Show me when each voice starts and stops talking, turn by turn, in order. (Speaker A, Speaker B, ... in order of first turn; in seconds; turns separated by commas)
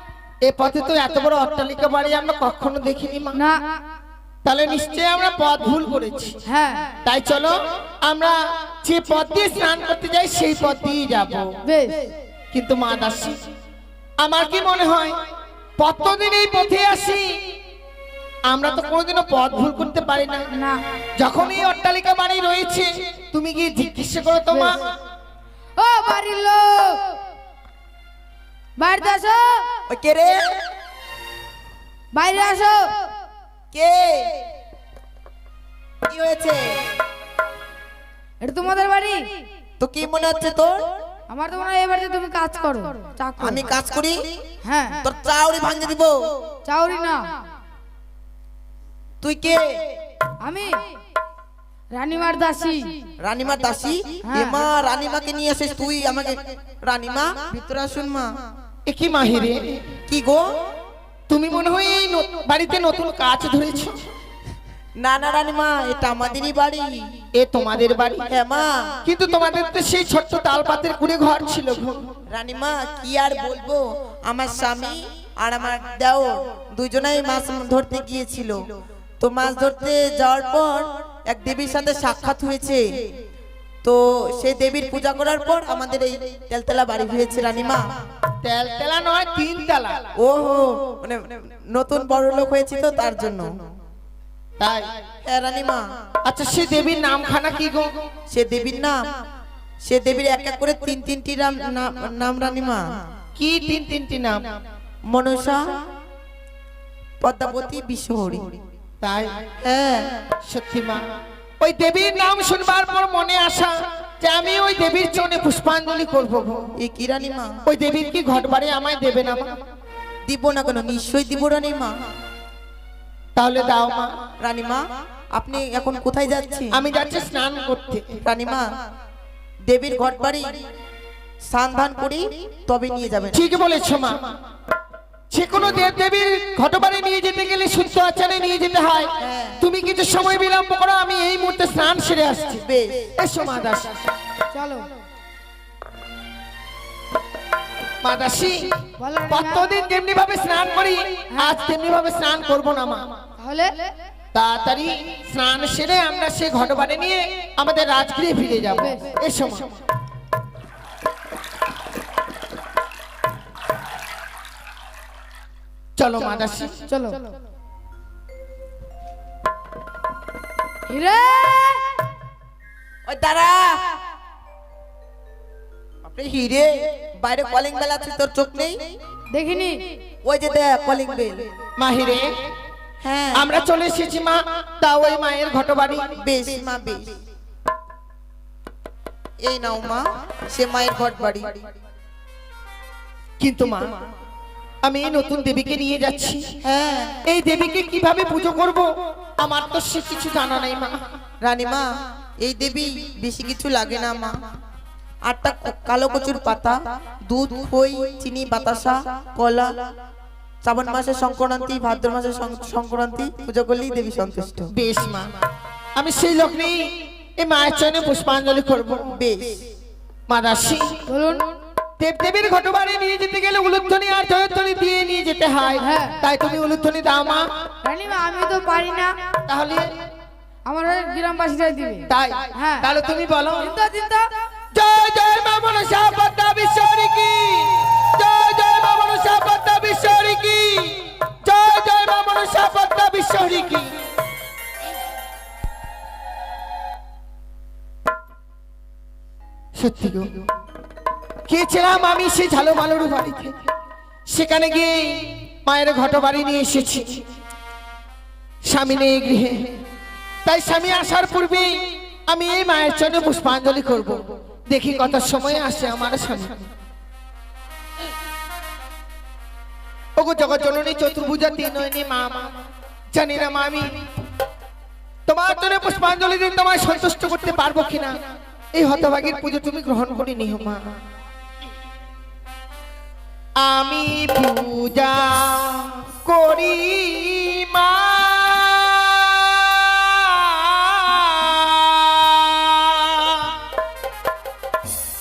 Speaker A: 0.5-3.4, Speaker B: 3.4-3.6, Speaker A: 4.5-6.4, Speaker B: 6.5-6.9, Speaker A: 7.0-11.5, Speaker B: 11.7-12.1, Speaker A: 12.5-13.4, Speaker A: 14.2-15.1, Speaker A: 15.8-17.3, Speaker A: 18.5-20.5, Speaker B: 20.5-20.8, Speaker A: 21.2-24.9, Speaker B: 24.5-24.8, Speaker B: 25.8-27.1, Speaker B: 28.8-29.6, Speaker C: 29.9-30.6, Speaker B: 32.1-32.9, Speaker C: 33.7-34.5, Speaker C: 36.1-36.8, Speaker B: 38.4-39.2, Speaker C: 39.8-40.8, Speaker B: 41.3-43.6, Speaker C: 43.4-44.4, Speaker B: 44.6-45.0, Speaker C: 45.0-46.2, Speaker B: 46.7-47.2, Speaker C: 49.2-49.6, Speaker B: 50.4-50.8, Speaker B: 51.9-52.9, Speaker C: 53.2-58.3, Speaker B: 54.3-54.6, Speaker A: 58.9-59.8, Speaker C: 60.1-60.4, Speaker A: 61.3-64.0, Speaker C: 65.0-66.9, Speaker A: 67.3-68.3, Speaker C: 68.3-68.9, Speaker A: 69.0-72.1, Speaker C: 72.3-78.6, Speaker C: 79.2-82.8, Speaker C: 83.8-87.8, Speaker A: 88.4-90.1, Speaker C: 90.2-93.5, Speaker A: 94.6-94.9, Speaker C: 95.3-95.8, Speaker A: 96.2-97.9, Speaker C: 98.3-99.0, Speaker C: 99.8-102.8, Speaker A: 103.4-104.6, Speaker C: 105.1-105.6, Speaker C: 107.2-108.6, Speaker A: 109.0-109.3, Speaker C: 109.6-110.2, Speaker A: 110.5-111.0, Speaker A: 111.6-116.7, Speaker C: 116.8-117.6, Speaker A: 117.7-119.5, Speaker C: 120.3-122.0, Speaker A: 123.4-124.1, Speaker C: 124.4-126.7, Speaker A: 126.7-128.2, Speaker C: 128.2-128.7, Speaker C: 129.7-130.6, Speaker C: 131.5-133.4, Speaker A: 133.3-134.3, Speaker A: 135.3-142.6, Speaker C: 139.2-139.6, Speaker C: 142.7-143.1, Speaker A: 143.2-144.1, Speaker B: 144.5-144.9, Speaker A: 148.0-153.2, Speaker B: 149.0-149.8, Speaker B: 153.4-153.9, Speaker A: 154.3-159.8, Speaker B: 158.8-159.1, Speaker A: 166.0-166.8, Speaker B: 166.9-167.2, Speaker B: 170.9-171.9, Speaker C: 173.1-173.9, Speaker C: 176.1-178.8, Speaker B: 179.3-179.9, Speaker C: 180.2-181.5, Speaker A: 181.8-182.3, Speaker C: 183.0-183.5, Speaker A: 183.3-186.2, Speaker C: 186.2-187.1, Speaker C: 189.4-191.6, Speaker A: 193.4-193.9, Speaker A: 194.8-196.4, Speaker C: 196.6-197.2, Speaker A: 197.3-198.9, Speaker A: 199.4-201.0, Speaker C: 201.4-201.9, Speaker C: 202.4-204.3, Speaker C: 205.3-209.9, Speaker C: 210.6-214.7, Speaker A: 214.7-215.3, Speaker A: 216.0-219.1, Speaker C: 219.1-219.6, Speaker A: 220.3-221.1, Speaker B: 221.1-221.5, Speaker A: 222.0-227.5, Speaker B: 225.8-226.2, Speaker B: 227.8-229.2, Speaker A: 229.5-229.9, Speaker B: 230.7-232.9, Speaker A: 232.1-233.7, Speaker B: 233.6-234.3, Speaker A: 234.7-243.9, Speaker A: 249.8-250.4, Speaker A: 251.5-253.6, Speaker A: 254.3-257.2, Speaker A: 258.7-259.7, Speaker A: 260.5-266.7, Speaker A: 270.2-272.5, Speaker A: 273.1-274.0, Speaker A: 275.3-278.2, Speaker A: 278.7-280.9, Speaker A: 283.6-293.6